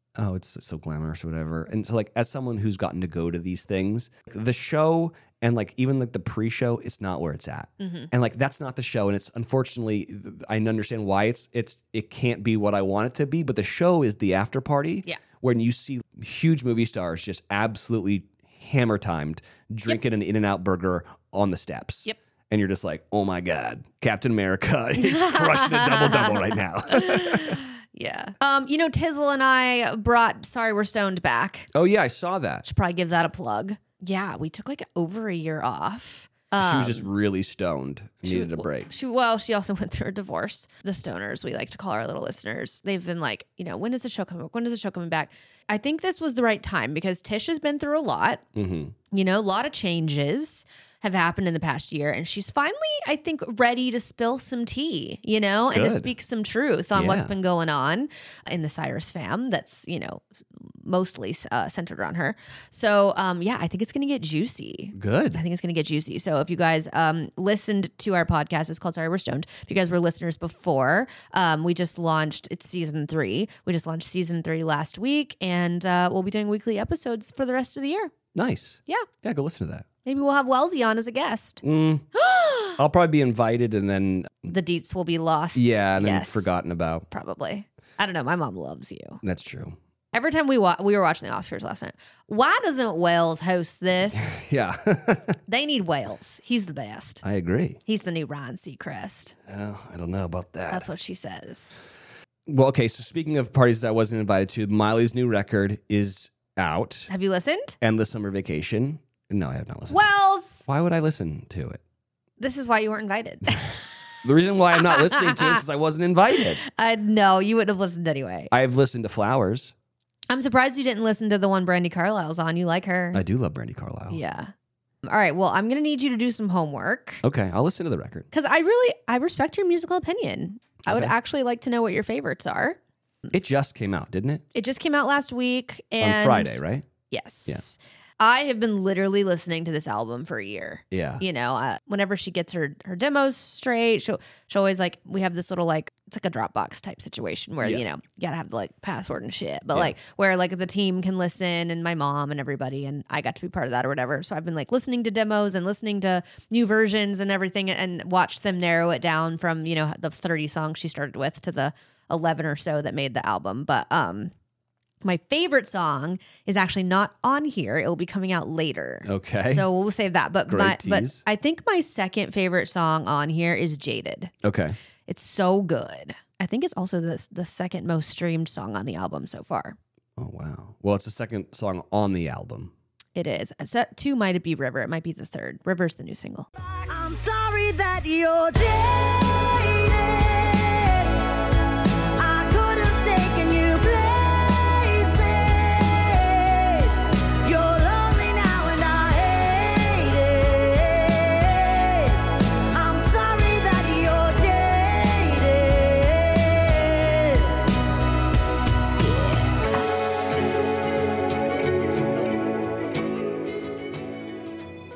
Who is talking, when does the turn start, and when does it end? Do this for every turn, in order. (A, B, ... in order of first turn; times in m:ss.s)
0:00.2-0:27.6 A
0:07.8-0:08.1 B
0:25.0-0:31.7 B
0:31.7-0:32.6 A
0:32.6-0:37.1 B
0:36.6-0:38.9 A
0:38.2-0:48.4 B
0:48.5-0:48.9 A
0:49.1-1:18.1 B
0:55.7-0:56.1 A
0:56.9-0:57.3 A
1:04.9-1:05.4 A
1:18.3-1:19.8 A
1:20.0-1:21.6 B
1:21.6-1:22.1 A
1:22.1-1:22.8 B
1:22.8-1:24.5 A
1:24.5-1:26.5 B
1:25.5-1:27.0 A
1:27.1-1:29.2 B
1:29.2-1:29.8 A
1:30.1-1:34.4 B
1:34.1-1:35.4 A
1:35.5-1:37.2 B
1:37.2-1:37.8 A
1:37.8-1:39.3 B
1:39.5-1:40.9 A
1:40.7-1:41.8 B
1:42.5-1:47.1 A
1:47.1-1:47.8 B
1:47.8-1:50.1 A
1:49.9-1:50.7 B
1:50.6-1:51.8 A
1:52.4-1:53.8 B
1:54.2-1:56.6 A
1:54.8-1:55.6 B
1:56.6-1:58.5 B
1:58.5-1:59.7 A
2:00.3-2:03.2 B
2:03.1-2:04.2 A
2:04.1-2:04.5 B
2:05.0-2:07.2 B
2:07.2-2:08.3 A
2:08.3-2:12.8 B
2:10.8-2:11.1 A
2:13.3-2:14.4 A
2:14.5-2:44.3 B
2:16.0-2:16.9 A
2:20.9-2:21.2 A
2:45.0-2:54.3 B
2:49.0-2:49.7 A
2:50.5-2:51.2 A
2:54.4-2:54.8 A
2:55.1-2:59.8 B
3:00.2-3:02.7 A
3:03.2-3:06.5 B
3:06.6-3:11.2 C
3:12.2-3:27.6 C